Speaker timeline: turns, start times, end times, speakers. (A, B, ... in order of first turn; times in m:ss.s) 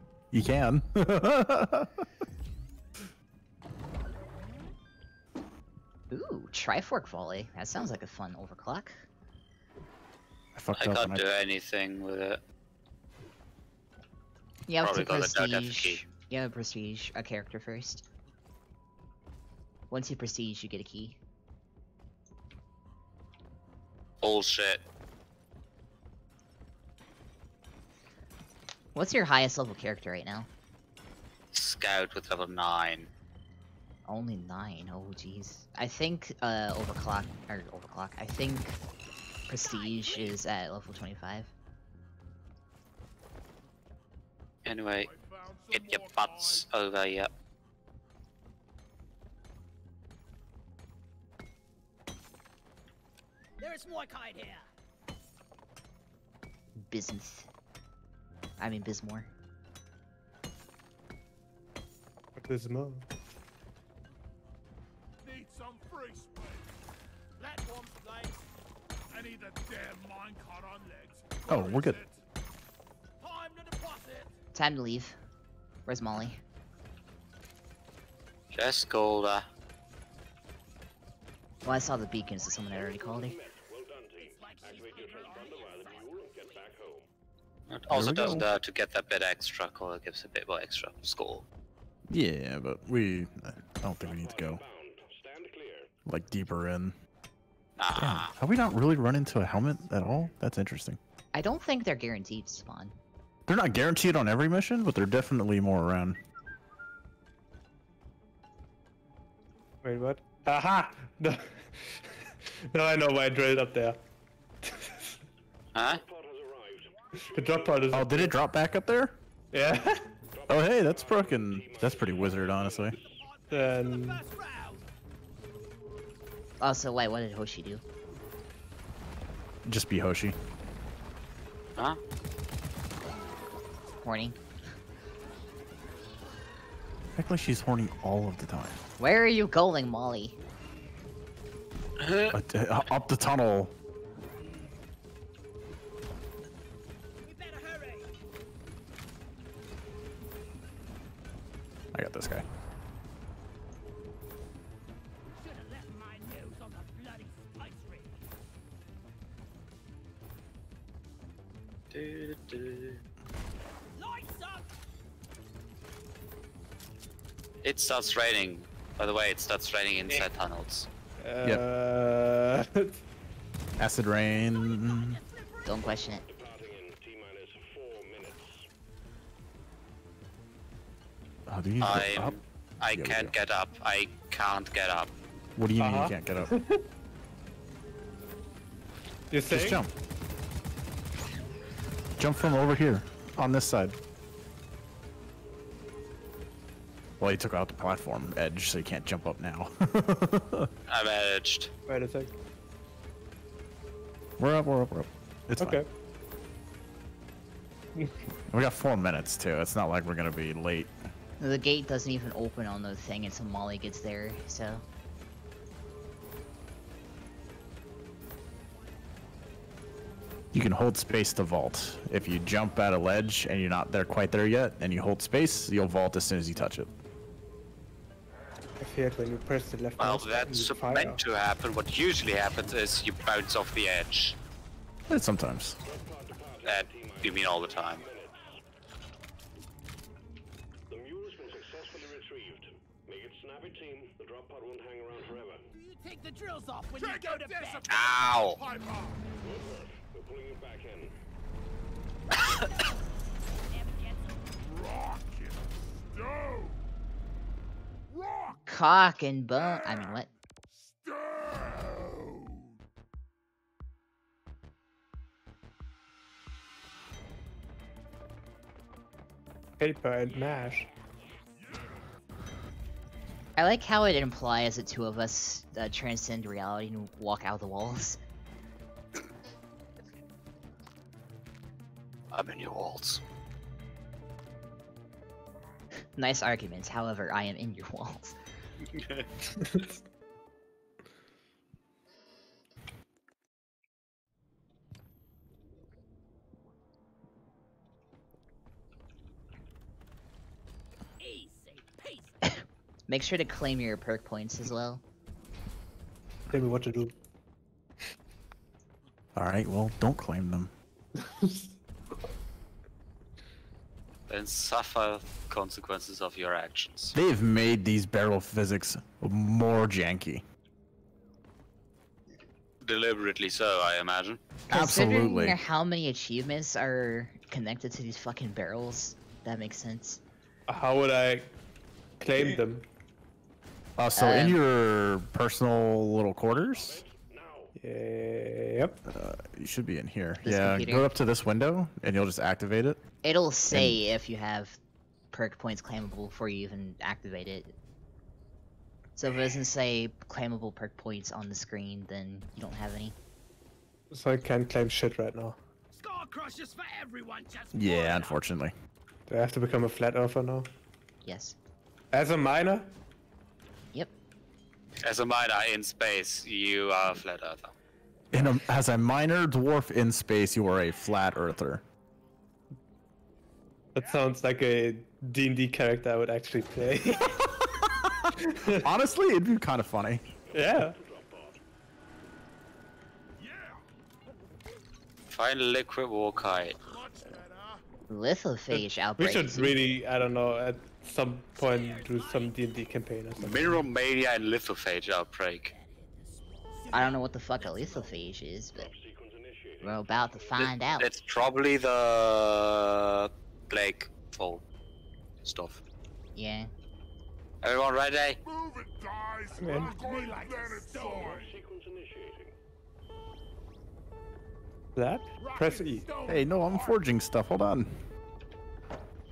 0:00.3-0:02.0 A
0:06.1-0:09.0 B
0:10.5-0:11.2 A
0:10.7-0:12.4 C
0:14.7-0:18.0 B
0:14.8-0:16.0 C
0:19.9-0:21.2 B
0:24.2-0:24.8 C
0:28.9-0:30.5 B
0:31.5-0:33.1 C
0:34.1-0:38.8 B
0:39.5-0:41.5 B
0:39.6-0:40.4 D
0:44.6-0:45.1 C
0:45.0-0:46.7 E
0:45.7-0:47.3 C
0:53.6-0:54.7 D
0:56.8-0:57.5 B
0:58.6-0:59.3 B
1:02.4-1:03.0 F
1:05.2-1:06.7 E
1:07.4-1:08.4 D
1:09.1-1:12.2 E
1:11.5-1:12.0 A
1:13.2-1:14.3 D
1:14.5-1:15.2 B
1:15.8-1:16.4 B
1:18.5-1:19.4 C
1:21.6-1:23.4 B
1:22.6-1:27.0 G
1:24.2-1:26.8 D
1:27.7-1:31.4 C
1:27.9-1:28.4 A
1:32.1-1:34.6 A
1:34.0-1:35.9 G
1:36.0-1:36.9 A
1:37.8-1:38.3 C
1:37.9-1:41.0 A
1:39.2-1:40.4 E
1:41.3-1:42.9 B
1:43.5-1:46.2 A
1:49.8-1:54.0 F
1:54.6-1:55.1 F
1:55.7-1:56.0 C
1:55.8-1:58.2 G
1:57.2-1:58.3 F
1:57.9-1:59.1 A
1:59.5-2:00.1 F
2:00.3-2:03.2 G
2:00.5-2:03.0 A
2:02.9-2:04.8 D
2:03.5-2:04.2 F
2:06.6-2:07.8 B
2:09.6-2:10.4 A
2:14.0-2:14.4 B
2:17.2-2:18.8 A
2:19.0-2:20.4 B
2:22.0-2:22.4 C
2:22.3-2:23.7 A
2:27.2-2:28.1 D
2:31.9-2:32.4 A
2:35.4-2:38.1 D
2:41.9-2:43.0 C
2:43.9-2:44.7 D
2:47.6-2:50.9 C
2:51.2-2:53.0 F
2:53.8-2:55.2 A
2:54.8-2:56.0 D
2:55.6-2:56.2 B
2:56.2-2:58.7 G
3:01.5-3:02.4 A
3:01.8-3:05.1 C
3:02.9-3:03.3 A
3:05.6-3:06.5 A
3:05.8-3:06.8 F
3:09.3-3:09.8 F
3:09.5-3:09.9 A
3:12.2-3:14.0 A
3:17.2-3:20.7 A
3:20.9-3:21.7 C
3:21.9-3:22.3 F
3:24.4-3:25.8 A
3:25.6-3:25.9 F
3:28.5-3:30.9 A
3:31.4-3:34.8 B
3:40.5-3:46.9 A
3:48.8-3:51.2 F
3:50.0-3:54.4 C
3:55.1-3:55.8 A
3:55.8-3:58.6 G
3:56.6-3:58.0 C
4:00.9-4:05.7 G
4:05.7-4:07.8 D
4:07.0-4:09.2 E
4:07.9-4:08.6 C
4:09.4-4:11.2 G
4:12.5-4:12.9 D
4:13.6-4:14.5 D
4:14.6-4:16.8 E
4:18.1-4:18.7 E
4:18.7-4:20.3 B
4:19.5-4:20.2 E
4:20.8-4:22.8 E
4:29.8-4:30.9 F
4:30.2-4:31.6 D
4:31.6-4:32.2 E
4:33.6-4:38.2 B
4:42.3-4:43.2 C
4:46.1-4:48.3 B
4:48.9-4:49.2 C
4:49.6-4:49.9 F
5:01.2-5:02.4 D
5:03.1-5:05.0 B
5:06.5-5:07.1 F
5:09.3-5:10.7 A
5:11.2-5:11.7 F
5:14.3-5:17.1 C
5:17.1-5:20.4 A
5:22.8-5:24.4 C
5:24.7-5:25.6 A
5:24.7-5:30.2 B
5:30.7-5:31.5 F
5:32.2-5:32.8 F
5:34.0-5:37.0 A
5:34.1-5:34.6 B
5:36.5-5:37.7 G
5:37.8-5:39.0 F
5:39.0-5:43.0 A
5:40.4-5:41.1 B
5:43.2-5:44.8 B
5:43.7-5:44.0 A
5:45.3-5:47.7 B
5:49.2-5:53.2 B
5:54.1-5:55.6 F
5:55.9-5:58.4 D
5:57.7-5:58.7 A
5:59.3-6:00.7 F
6:01.2-6:01.6 B
6:02.1-6:02.9 F
6:05.0-6:07.7 C
6:08.3-6:11.8 A
6:13.9-6:17.3 F
6:14.0-6:14.4 E
6:17.3-6:18.1 A
6:18.4-6:18.9 F
6:18.8-6:20.2 A
6:20.4-6:21.6 G
6:20.5-6:21.0 F
6:23.4-6:23.8 E
6:25.3-6:26.8 C
6:26.8-6:27.8 E
6:28.1-6:29.8 B
6:28.7-6:33.8 F
6:31.6-6:32.6 D
6:33.4-6:35.7 C
6:35.7-6:38.3 D
6:36.7-6:37.1 E
6:36.9-6:38.9 B
6:38.7-6:40.7 G
6:39.8-6:41.1 B
6:40.6-6:44.6 C
6:45.4-6:45.8 C
6:46.3-6:46.7 B
6:47.6-6:48.4 C
6:48.4-6:51.6 E
6:49.6-6:50.0 F
6:49.8-6:51.4 D
6:50.8-6:52.5 G
6:55.0-6:56.1 F
6:55.4-6:57.0 E
6:56.2-6:58.0 A